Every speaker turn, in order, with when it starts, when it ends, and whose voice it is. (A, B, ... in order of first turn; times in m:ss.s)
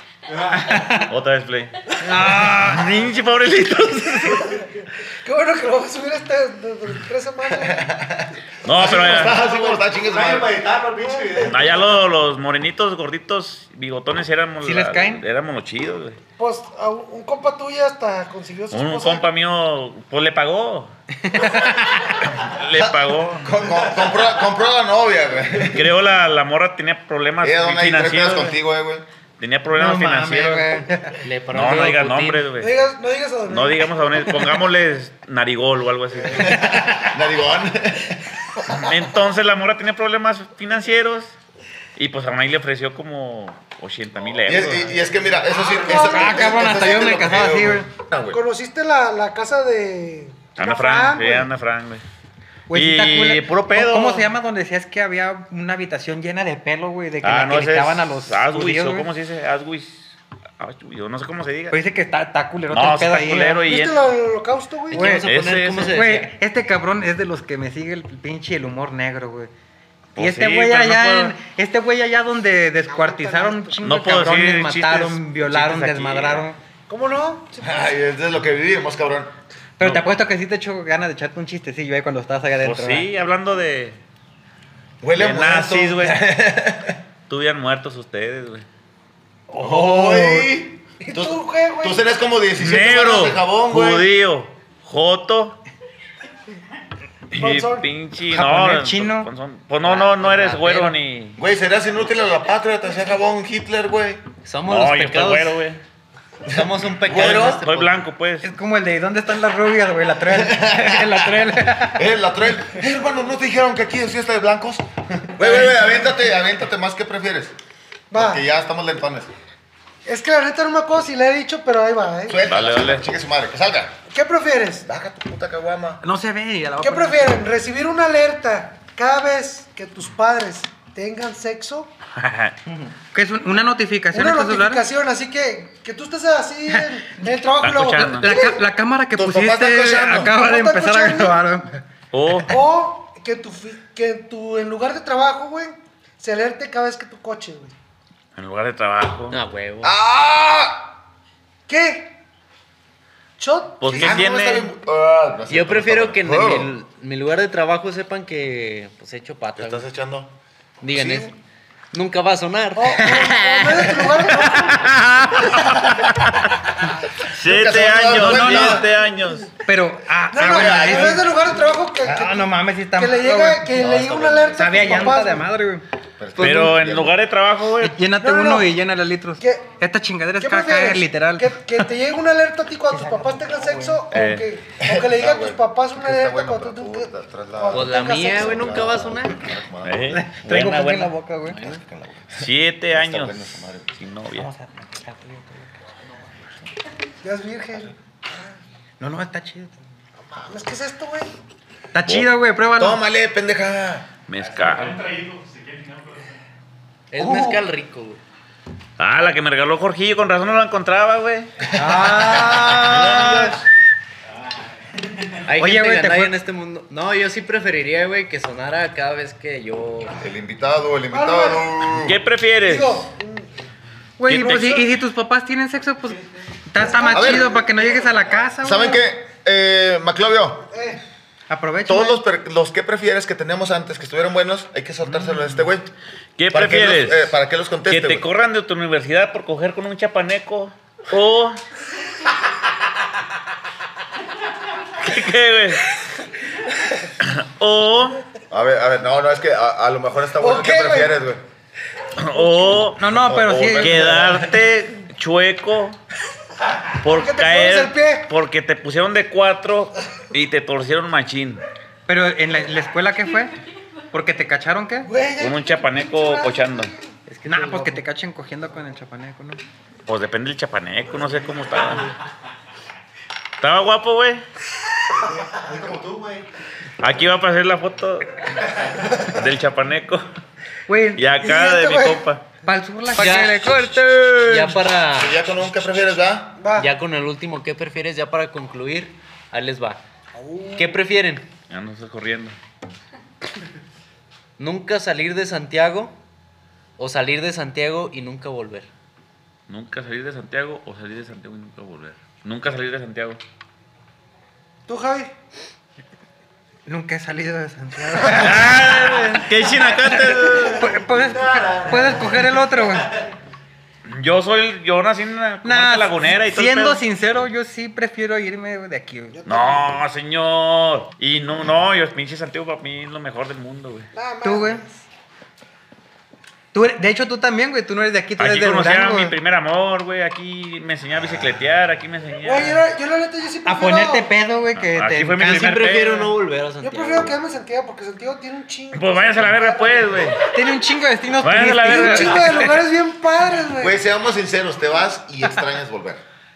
0:00.5-0:01.1 A
0:00.8-0:01.9 B
0:02.0-0:03.0 A
0:02.4-0:04.6 B
0:04.3-0:07.9 C
0:07.7-0:10.7 D
0:08.6-0:09.5 B
0:08.8-0:09.8 C
0:10.7-0:11.8 C
0:11.4-0:16.2 B
0:14.6-0:15.2 A
0:16.4-0:19.3 C
0:18.7-0:20.9 B
0:21.2-0:22.2 A
0:22.2-0:23.6 B
0:22.8-0:25.9 D
0:25.7-0:28.6 B
0:27.4-0:29.0 D
0:29.4-0:30.8 B
0:29.7-0:31.2 A
0:31.2-0:32.5 E
0:31.5-0:32.7 B
0:32.5-0:34.1 C
0:33.5-0:36.8 B
0:36.3-0:38.8 D
0:38.7-0:41.4 B
0:42.0-0:44.9 B
0:44.4-0:48.4 D
0:45.5-0:47.0 C
0:45.9-0:47.9 A
0:48.3-0:51.5 C
0:50.6-0:52.0 B
0:52.7-0:59.1 A
0:52.7-0:54.3 B
0:57.2-1:01.8 B
1:01.7-1:03.7 A
1:02.7-1:04.1 B
1:03.6-1:05.1 C
1:04.9-1:06.4 E
1:04.9-1:05.3 A
1:05.2-1:06.0 B
1:05.9-1:09.5 A
1:10.1-1:11.4 B
1:10.2-1:16.6 A
1:12.9-1:13.9 C
1:13.8-1:16.4 B
1:16.9-1:18.0 C
1:17.6-1:19.4 D
1:19.8-1:23.1 A
1:22.6-1:24.0 B
1:25.0-1:27.0 D
1:25.1-1:26.2 B
1:27.3-1:28.6 B
1:29.5-1:30.5 A
1:29.5-1:34.1 D
1:31.0-1:32.0 C
1:32.6-1:35.6 B
1:37.3-1:41.4 B
1:37.4-1:37.8 C
1:38.3-1:39.3 A
1:39.8-1:40.9 E
1:41.4-1:44.2 D
1:44.4-1:45.6 E
1:44.7-1:45.8 B
1:46.5-1:47.9 E
1:46.5-1:47.6 D
1:47.1-1:48.5 B
1:48.4-1:52.1 A
1:50.3-1:57.5 D
1:58.1-1:58.4 C
1:58.1-1:59.3 D
2:00.0-2:02.4 C
2:02.3-2:04.0 D
2:02.5-2:03.0 B
2:04.1-2:04.9 C
2:04.8-2:06.0 D
2:06.0-2:07.5 A
2:06.8-2:11.9 C
2:12.1-2:12.6 B
2:13.1-2:14.8 A
2:14.1-2:18.6 C
2:16.7-2:17.3 A
2:17.6-2:18.4 B
2:17.8-2:21.8 A
2:19.2-2:20.4 D
2:20.2-2:21.4 C
2:22.1-2:22.5 B
2:22.5-2:27.7 C
2:28.4-2:29.4 B
2:29.3-2:29.9 E
2:29.8-2:31.0 D
2:31.7-2:32.2 C
2:33.4-2:34.2 C
2:33.8-2:34.7 B
2:33.9-2:36.7 D
2:35.5-2:39.8 E
2:39.6-2:40.3 D
2:40.8-2:41.4 E
2:40.9-2:41.3 D
2:41.9-2:43.3 E
2:42.8-2:44.9 C
2:43.0-2:43.3 A
2:43.2-2:46.6 B
2:47.2-2:49.5 B
2:47.4-2:48.9 D
2:48.2-2:48.8 A
2:49.6-2:51.3 A
2:50.3-2:55.4 C
2:50.3-2:51.3 D
2:52.1-2:53.7 A
2:53.5-2:55.4 D
2:54.5-2:55.8 A
2:56.2-2:57.2 D
2:56.4-2:58.0 B
2:57.8-3:01.9 A
2:58.2-2:58.7 C
2:59.4-2:59.6 C
3:00.4-3:08.8 C
3:02.9-3:04.0 A
3:04.1-3:04.5 B
3:04.8-3:10.1 D
3:07.7-3:09.4 E
3:09.8-3:11.1 B
3:10.1-3:11.6 A
3:11.4-3:11.8 E
3:11.6-3:13.9 D
3:12.4-3:14.5 B
3:14.4-3:15.7 A
3:17.2-3:18.4 C
3:19.0-3:19.8 A
3:20.2-3:21.3 C
3:21.9-3:23.0 A
3:22.1-3:22.3 B
3:22.8-3:24.1 D
3:24.3-3:25.6 B
3:27.1-3:28.2 E
3:27.2-3:27.5 A
3:29.0-3:31.5 B
3:31.7-3:33.5 A
3:31.8-3:33.5 D
3:32.8-3:33.5 B
3:35.5-3:40.2 E
3:35.6-3:36.3 A
3:40.1-3:42.2 D
3:41.1-3:41.7 C
3:42.0-3:43.1 B
3:42.6-3:43.5 C
3:44.2-3:49.0 A
3:44.3-3:44.9 B
3:44.4-3:44.8 C
3:46.9-3:47.5 C
3:47.1-3:47.5 D
3:48.6-3:50.7 D
3:50.7-3:51.0 C
3:51.5-3:52.2 A
3:51.9-3:55.9 D
3:55.1-3:55.6 A
3:56.4-3:57.3 B
3:56.5-3:58.3 D
3:57.8-4:01.6 B
4:05.0-4:06.0 B
4:07.2-4:08.2 B
4:08.5-4:11.4 D
4:10.4-4:11.1 C
4:12.2-4:16.0 B
4:12.4-4:12.7 C
4:13.0-4:14.2 A
4:13.1-4:14.6 D
4:17.0-4:21.6 B
4:17.1-4:18.3 C
4:22.1-4:23.5 A
4:24.1-4:25.1 A
4:25.0-4:27.1 C
4:25.4-4:26.9 B
4:27.3-4:28.0 E
4:27.5-4:29.6 A
4:30.1-4:32.1 B
4:33.6-4:34.4 B
4:35.9-4:36.2 D
4:37.0-4:40.2 B
4:40.9-4:41.3 A
4:41.2-4:42.4 B
4:41.4-4:42.2 C
4:42.6-4:44.7 A
4:43.1-4:43.7 E
4:44.4-4:45.4 E
4:45.1-4:46.6 D
4:46.6-4:46.9 C
4:46.8-4:50.0 E
4:50.4-4:51.0 C
4:50.7-4:51.5 E
4:51.7-4:52.6 B
4:54.6-4:56.2 E
4:57.0-4:58.9 E
4:59.7-5:03.4 B
5:04.9-5:05.3 C
5:06.9-5:09.2 A
5:08.2-5:08.6 C
5:08.3-5:10.9 B
5:09.8-5:13.1 A
5:11.4-5:12.1 C
5:14.1-5:17.0 B
5:15.6-5:19.4 A
5:19.3-5:20.0 C
5:19.5-5:24.1 B
5:24.1-5:25.0 C
5:24.4-5:24.8 A
5:26.7-5:29.4 A
5:28.4-5:32.8 B
5:32.4-5:34.3 C
5:33.6-5:35.8 A
5:34.8-5:36.3 B
5:35.4-5:37.4 E
5:36.8-5:40.3 C
5:38.9-5:40.4 B
5:40.5-5:42.8 A
5:41.4-5:42.6 B
5:41.8-5:44.0 C
5:43.8-5:46.2 D